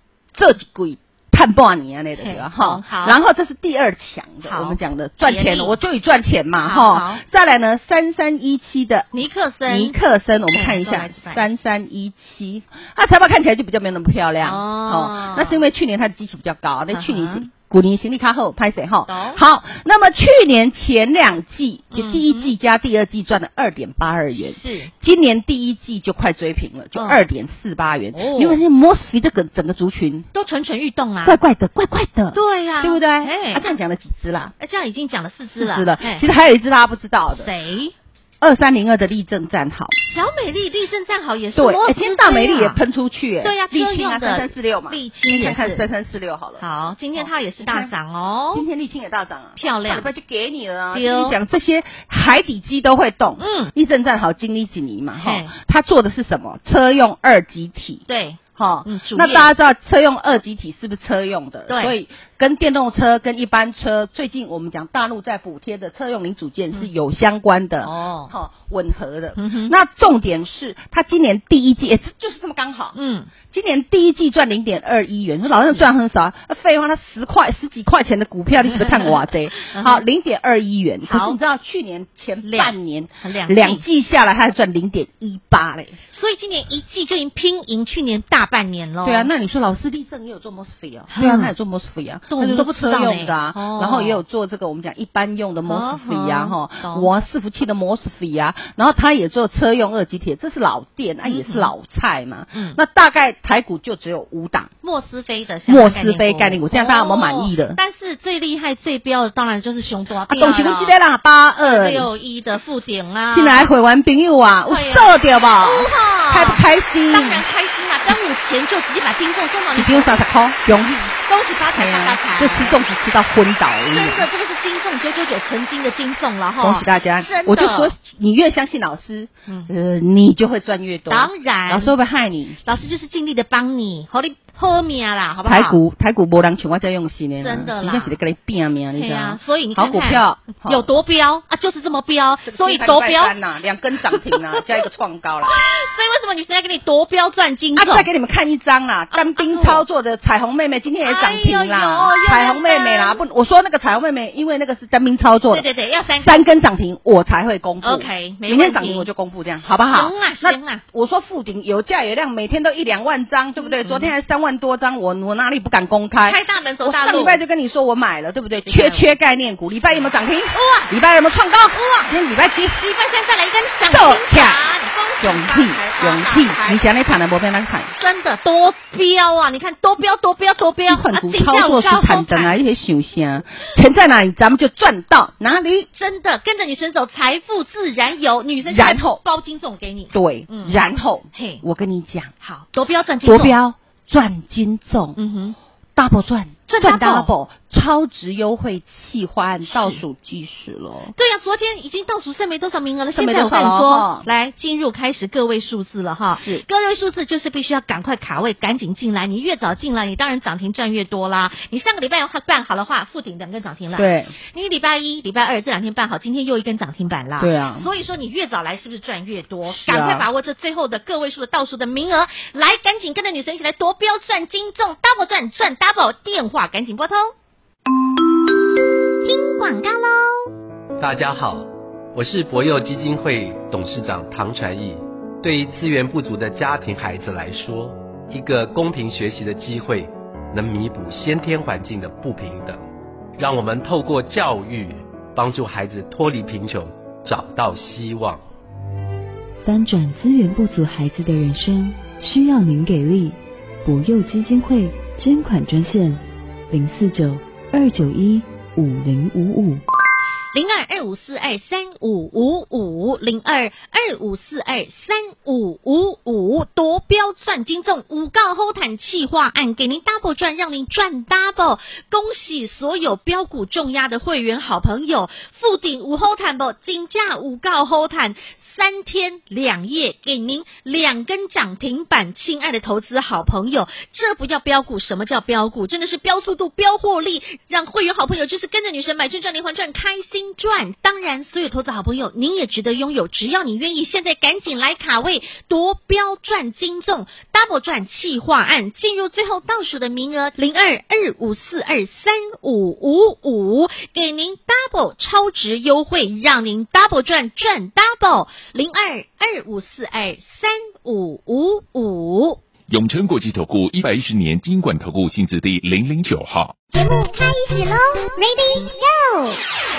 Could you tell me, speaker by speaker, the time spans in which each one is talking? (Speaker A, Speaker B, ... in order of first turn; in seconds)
Speaker A: 0.3-9.1, 9.7-30.3, 31.2-34.5, 35.6-37.5, 38.4-40.0, 41.5-46.6, 47.1-47.9, 48.5-58.0, 58.6-73.0, 73.5-86.0, 89.0-104.7, 105.7-107.8, 110.3-112.1, 113.3-117.5, 119.8-121.1, 121.8-124.3, 126.6-132.6, 135.4-140.9, 142.4-145.6, 147.8-172.8, 173.9-174.6, 175.2-177.9, 180.9-185.9, 188.7-189.2, 190.1-192.3, 193.2-195.2, 196.0-201.1, 203.1-204.3, 206.3-206.7, 214.0-214.3, 217.4-217.9, 219.7-220.3
Speaker B: 2.2-3.2, 4.4-5.8, 6.6-7.2, 9.1-10.0, 10.5-11.4, 14.4-15.6, 16.9-17.4, 19.1-19.4, 21.9-22.5, 24.4-24.9, 26.9-27.2, 28.1-28.6, 30.3-31.4, 32.3-33.6, 34.6-36.2, 37.3-37.9, 40.0-42.8, 43.4-45.8, 46.6-48.7, 49.6-50.1, 50.9-51.4, 53.4-53.7, 55.2-55.5, 58.1-59.5, 61.7-62.0, 67.8-68.3, 69.4-69.7, 73.0-73.3, 78.7-80.1, 81.1-81.4, 82.4-83.8, 86.1-89.3, 91.1-91.5, 92.3-94.2, 95.7-97.1, 101.2-101.7, 102.5-102.8, 104.8-111.0, 111.6-113.7, 114.7-120.2, 121.1-122.8, 123.9-127.9, 131.1-131.9, 132.7-135.8, 137.4-138.2, 138.9-143.4, 144.0-144.8, 145.5-148.1, 149.1-149.8, 151.0-153.2, 155.5-156.4, 157.8-159.1, 159.9-160.8, 163.6-164.1, 166.2-167.4, 168.7-169.1, 169.9-170.9, 171.7-172.1, 172.8-176.8, 178.0-182.6, 185.9-191.6, 192.4-193.6, 195.2-195.6, 196.7-197.3, 199.7-200.0, 201.1-227.3, 229.3-229.8, 260.5-312.6
Speaker C: 229.3-230.1, 316.9-319.6
Speaker D: 231.0-242.8, 243.4-248.4
Speaker E: 249.6-259.8
Speaker F: 312.9-316.8